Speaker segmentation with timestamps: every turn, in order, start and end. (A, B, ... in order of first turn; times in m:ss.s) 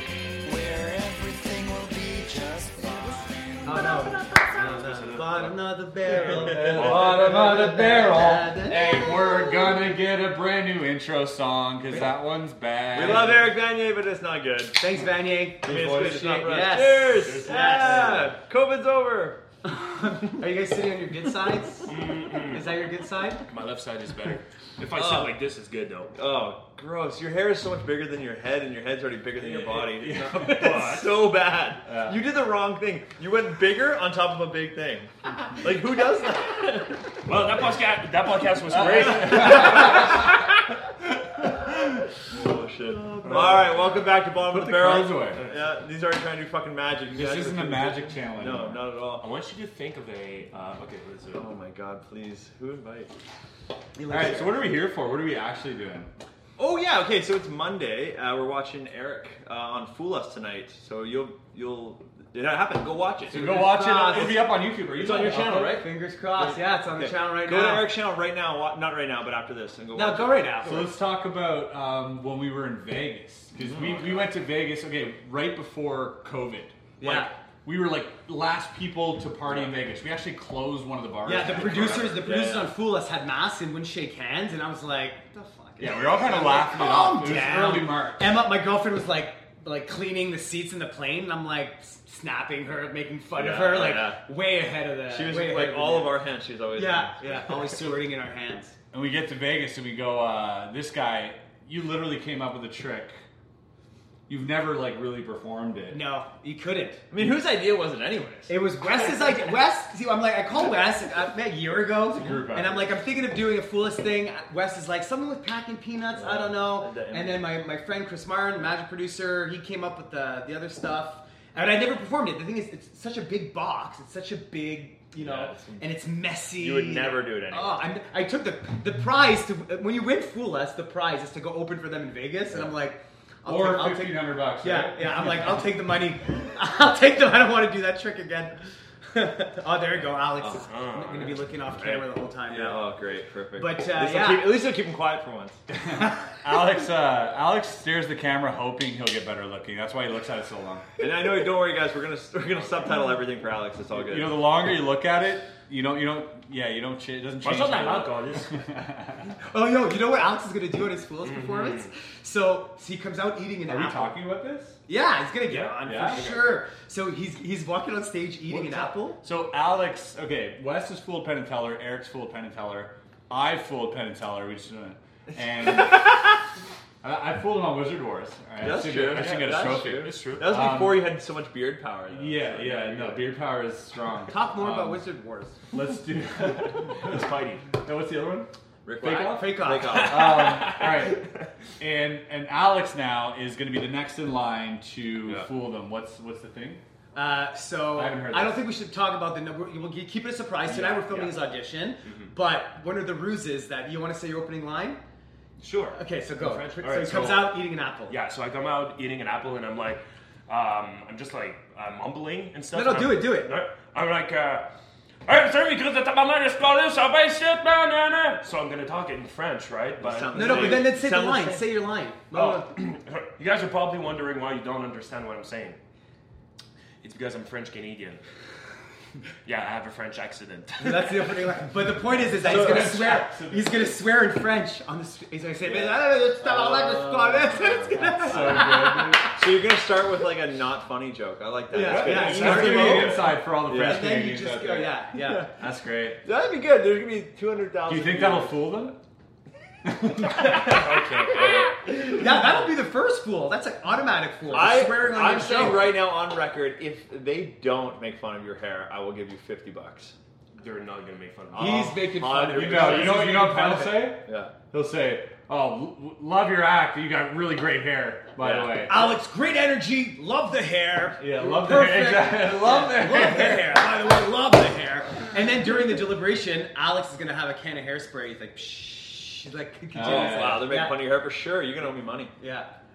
0:00.4-0:04.4 A
0:03.6-0:08.8 B
0:04.2-0:05.6 C
0:06.1-0:07.3 D
0:06.6-0:13.5 E
0:06.8-0:07.6 C
0:12.9-0:14.8 D
0:14.8-0:18.3 B
0:15.6-0:19.4 D
0:15.7-0:16.2 E
0:17.1-0:18.2 C
0:19.6-0:23.4 B
0:21.9-0:22.7 C
0:23.5-0:26.2 C
0:24.9-0:25.4 D
0:26.1-0:37.2 D
0:29.4-0:30.9 E
0:29.8-0:31.3 C
0:31.9-0:32.1 E
0:37.3-0:40.0 C
0:38.7-0:40.2 E
0:38.9-0:40.1 D
0:42.3-0:49.2 D
0:43.4-0:44.0 C
0:44.4-0:45.4 E
0:47.1-0:48.8 E
0:49.2-0:51.4 C
0:51.3-0:53.1 D
0:54.0-0:54.6 B
0:54.1-0:56.1 E
0:56.6-1:10.6 D
1:03.3-1:05.8 E
1:03.3-1:04.5 B
1:05.7-1:07.9 B
1:10.0-1:10.9 B
1:10.6-1:22.3 E
1:13.6-1:14.2 D
1:17.0-1:17.3 B
1:21.3-1:36.2 B
1:21.4-1:22.7 D
1:25.8-1:28.3 E
1:33.4-1:34.2 D
1:35.1-1:37.6 D
1:36.8-1:38.8 B
1:38.9-1:43.2 E
1:44.3-1:46.0 E
1:45.9-1:47.0 B
1:47.1-1:48.5 D
1:48.5-2:18.6 B
1:52.2-1:52.9 E
1:56.2-1:57.5 D
2:05.2-2:05.9 D
2:06.6-2:07.9 D
2:13.4-2:15.3 E
2:19.1-2:22.8 B
2:20.4-2:20.7 D
2:20.7-2:22.1 C
2:22.5-2:25.6 D
2:23.6-2:24.5 B
2:25.7-2:30.9 E
2:31.0-2:34.4 D
2:34.0-2:39.3 E
2:37.4-2:38.5 C
2:39.5-2:44.2 B
2:41.2-2:41.9 C
2:43.7-2:44.8 E
2:44.9-2:49.2 B
2:45.5-2:46.6 C
2:45.8-2:46.3 E
2:48.5-2:56.4 E
2:57.0-3:01.1 E
2:58.6-3:03.2 D
2:59.3-3:00.5 C
3:02.1-3:05.0 E
3:04.3-3:05.6 B
3:05.7-3:08.5 E
3:06.9-3:07.7 C
3:08.8-3:10.8 D
3:09.0-3:11.3 E
3:09.2-3:10.2 B
3:11.8-3:16.8 E
3:17.1-3:25.0 B
3:18.0-3:18.6 E
3:20.7-3:21.3 C
3:22.0-3:22.3 C
3:25.6-3:34.7 C
3:25.9-3:28.2 B
3:32.7-3:33.5 B
3:35.3-3:41.0 C
3:40.0-3:41.7 D
3:40.4-3:42.7 B
3:42.3-3:45.8 C
3:47.0-3:48.2 C
3:49.4-3:51.4 C
3:50.8-3:59.4 B
3:52.3-3:54.0 E
3:52.4-3:53.1 D
3:55.7-4:04.2 D
3:57.6-3:59.3 E
4:01.7-4:05.4 B
4:01.7-4:05.0 E
4:05.5-4:06.2 E
4:06.2-4:08.7 D
4:07.9-4:09.0 E
4:09.8-4:10.8 E
4:10.5-4:12.1 D
4:10.6-4:11.7 C
4:12.0-4:16.0 B
4:14.5-4:20.1 D
4:20.6-4:22.1 C
4:21.5-4:23.5 D
4:21.6-4:24.1 B
4:22.5-4:29.1 E
4:24.2-4:24.5 D
4:28.4-4:29.1 D
4:28.9-4:41.0 B
4:31.2-4:33.8 E
4:39.9-4:40.8 E
4:40.0-4:42.3 D
4:42.4-4:42.7 B